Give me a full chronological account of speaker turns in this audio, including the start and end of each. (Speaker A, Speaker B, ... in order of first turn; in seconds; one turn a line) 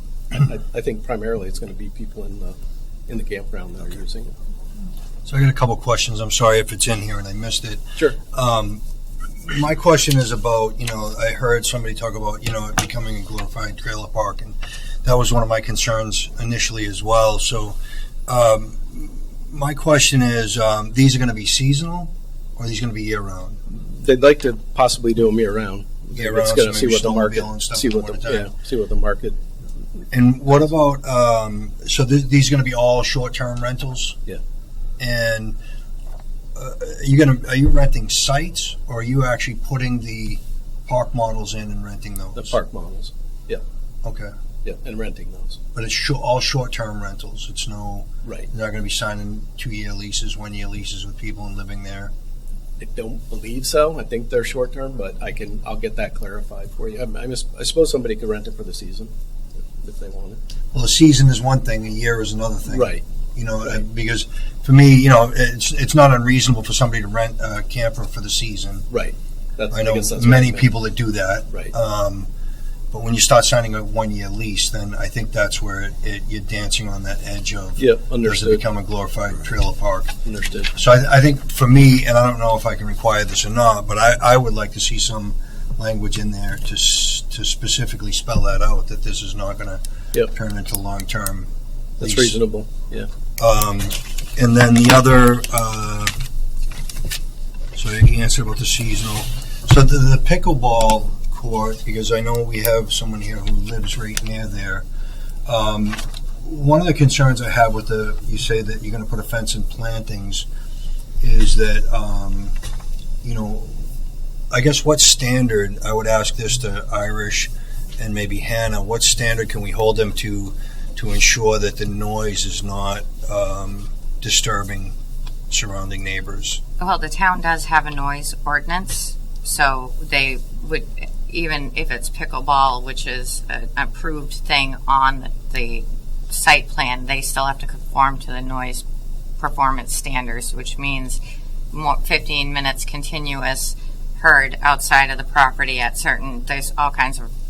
Speaker A: 0.3-2.5
Speaker A: 3.1-4.3
Speaker B: 5.2-8.8
Speaker B: 9.4-23.6
Speaker A: 23.9-29.4
Speaker B: 26.1-28.5
Speaker B: 30.1-34.2
Speaker B: 35.0-35.6
Speaker B: 36.5-42.6
Speaker A: 42.3-43.6
Speaker B: 44.0-44.3
Speaker A: 44.6-45.6
Speaker B: 45.7-52.1
Speaker A: 52.8-59.1
Speaker A: 59.6-60.4
Speaker B: 60.7-68.9
Speaker A: 62.7-63.0
Speaker A: 68.9-70.7
Speaker B: 69.7-72.3
Speaker B: 72.9-80.1
Speaker A: 77.8-78.6
Speaker A: 80.2-80.7
Speaker B: 80.7-91.5
Speaker B: 92.0-92.4
Speaker A: 92.0-93.1
Speaker B: 93.4-96.1
Speaker B: 97.7-104.8
Speaker B: 105.5-110.5
Speaker B: 111.2-112.5
Speaker B: 113.2-113.9
Speaker B: 114.5-125.0
Speaker B: 125.5-126.6
Speaker C: 126.8-138.8
Speaker C: 139.4-141.2
Speaker C: 141.7-147.3